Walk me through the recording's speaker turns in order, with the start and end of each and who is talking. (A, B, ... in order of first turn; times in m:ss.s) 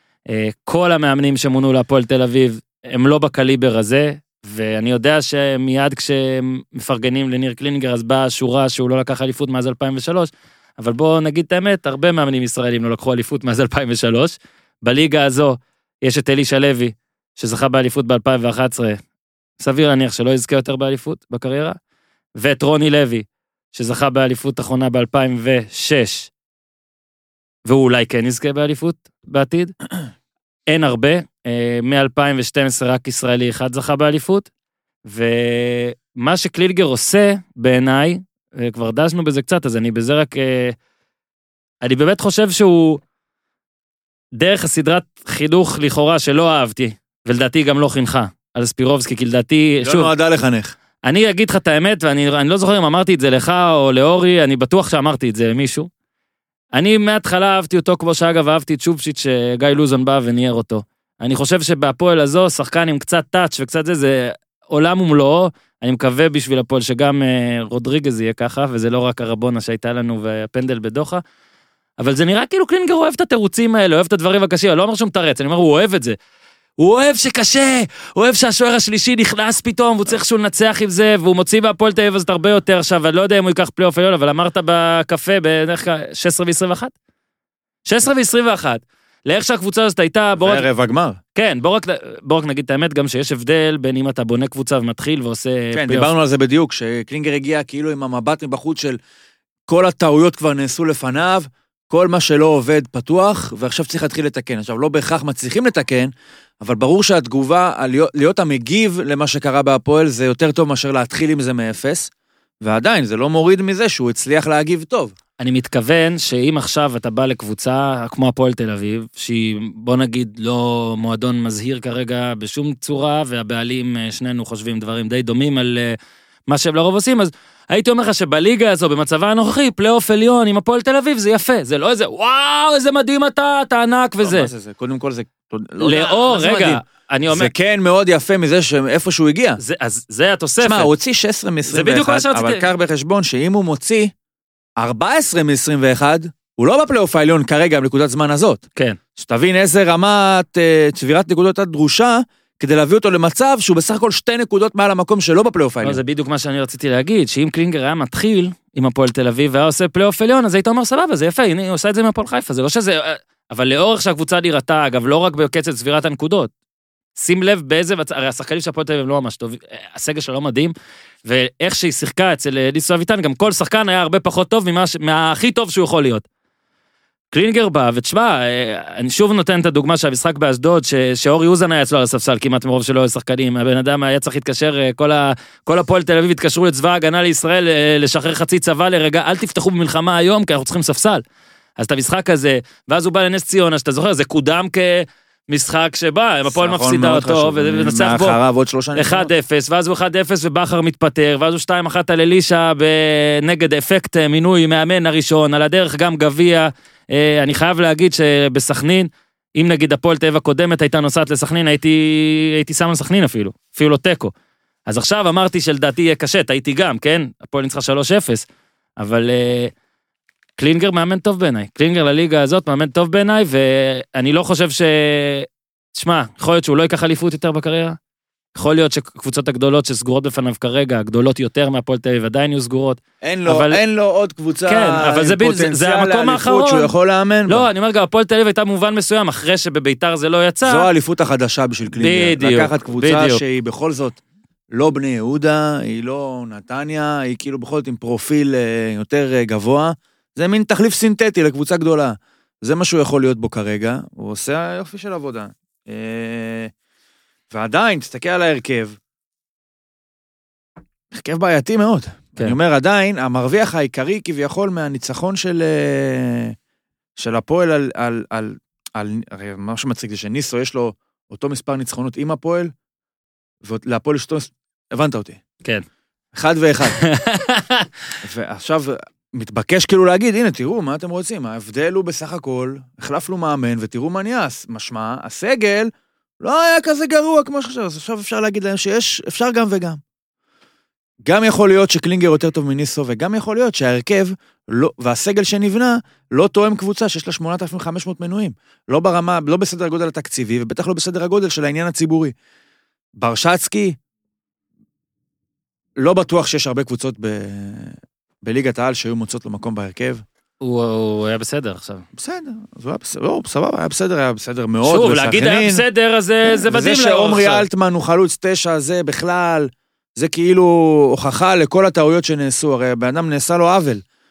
0:00.3-0:19.0 A
0:19.6-0:21.8 A
0:22.4-0:26.3 A
0:27.6-0:29.7 A
0:30.7-0:34.5 A
0:35.0-0:40.8 A
0:41.8-0:43.0 A
0:44.3-0:50.1 A
0:49.8-0:50.7 B
0:51.0-0:55.9 A
0:56.7-1:11.2 A
1:12.0-1:16.2 A
1:16.8-1:26.9 A
1:27.8-1:30.6 A
1:30.4-1:31.2 B
1:31.3-1:36.1 A
1:35.7-1:39.0 B
1:39.7-1:52.1 B
1:52.6-1:55.1 B
1:55.4-2:06.0 A
2:06.5-2:14.5 A
2:14.2-2:19.6 B
2:15.8-2:17.5 A
2:19.6-2:20.9 A
2:20.6-2:24.1 B
2:21.6-2:22.7 A
2:24.8-2:28.6 B
2:29.2-2:36.0 B
2:35.8-2:46.5 A
2:47.2-2:50.7 A
2:51.2-2:56.2 A
2:57.3-3:11.2 A
3:11.8-3:18.4 A
3:16.5-3:19.3 B
3:18.9-3:34.3 A
3:34.9-3:38.4 A
3:39.0-3:39.7 A
3:40.6-3:48.0 A
3:48.5-3:53.8 A
3:53.2-3:57.7 B
3:54.7-3:56.9 A
3:57.5-4:00.9 A
4:00.6-4:04.2 B
4:01.9-4:03.4 A
4:04.7-4:16.7 B
4:17.5-4:19.0 B
4:21.1-4:26.5 B
4:27.2-4:32.7 B
4:33.6-4:35.4 B
4:36.3-4:37.0 B
4:36.9-4:37.9 A
4:38.2-4:50.0 B
4:51.2-5:02.3 B
5:03.2-5:04.0 B
5:06.0-5:10.2 B
5:10.6-5:12.0 A
5:12.1-5:15.8 B
5:14.8-5:17.6 A
5:16.4-5:24.0 B